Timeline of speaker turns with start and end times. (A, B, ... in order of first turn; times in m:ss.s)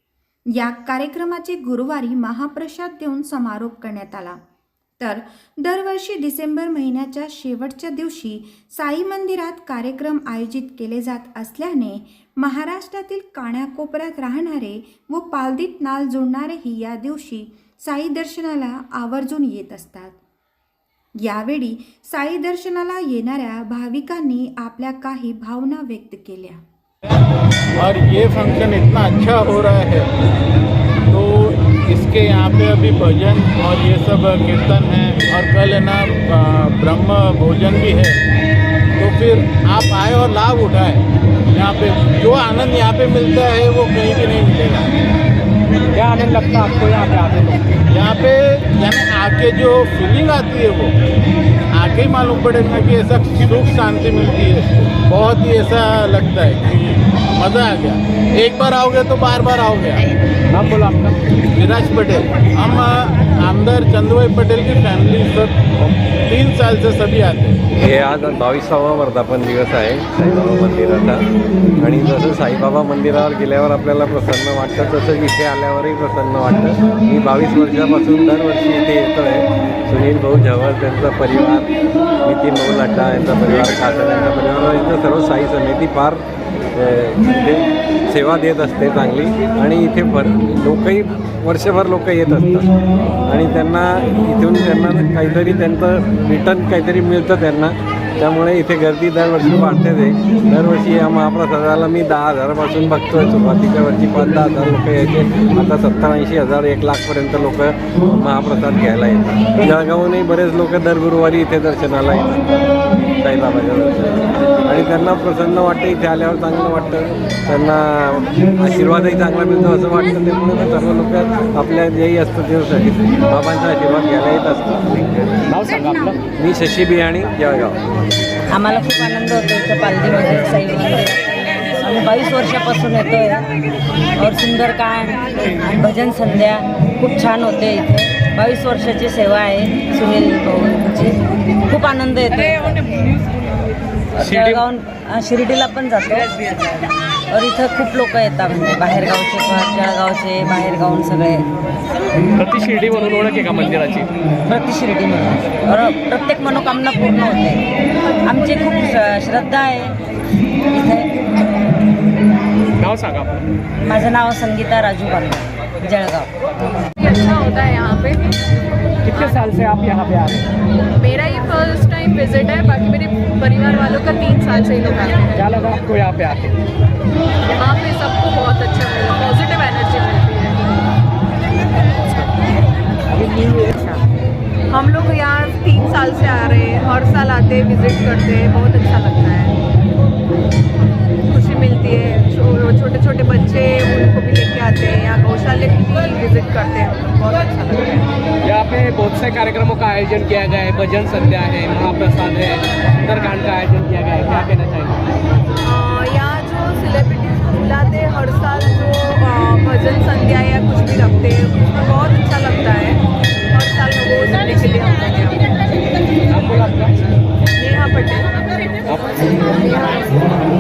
0:00.6-0:04.4 A
0:05.0-0:20.2 A
0:21.2-0:26.6 A
0:27.8-0:30.1 B
0:31.1-0:38.2 B
0:39.0-0:44.9 B
0:45.9-0:47.6 C
0:47.9-0:50.9 B
0:51.7-1:00.0 B
1:00.5-1:01.3 C
1:01.4-1:07.7 B
1:07.8-1:11.3 D
1:11.8-1:21.7 D
1:22.3-1:26.2 D
1:26.8-1:32.7 D
1:33.3-1:52.7 D
1:53.2-2:05.1 D
2:05.5-2:06.2 C
2:06.4-2:07.8 D
2:08.5-2:13.5 E
2:14.2-2:23.2 E
2:24.2-2:26.3 E
2:24.2-2:24.6 C
2:27.3-2:31.5 E
2:32.4-2:34.1 C
2:34.5-2:37.6 E
2:38.2-2:40.0 E
2:40.7-2:41.1 E
2:42.8-2:43.4 C
2:43.8-2:46.3 E
2:47.0-2:48.4 F
2:49.1-2:50.5 C
2:49.1-2:49.4 F
2:51.0-2:55.5 F
2:55.4-2:56.6 C
2:57.5-3:00.8 F
3:03.1-3:04.0 C
3:04.7-3:09.6 F
3:11.3-3:18.1 F
3:18.4-3:25.0 C
3:25.7-3:35.6 F
3:36.3-3:37.0 C
3:37.6-3:38.3 F
3:38.9-3:40.2 C
3:39.6-3:40.0 F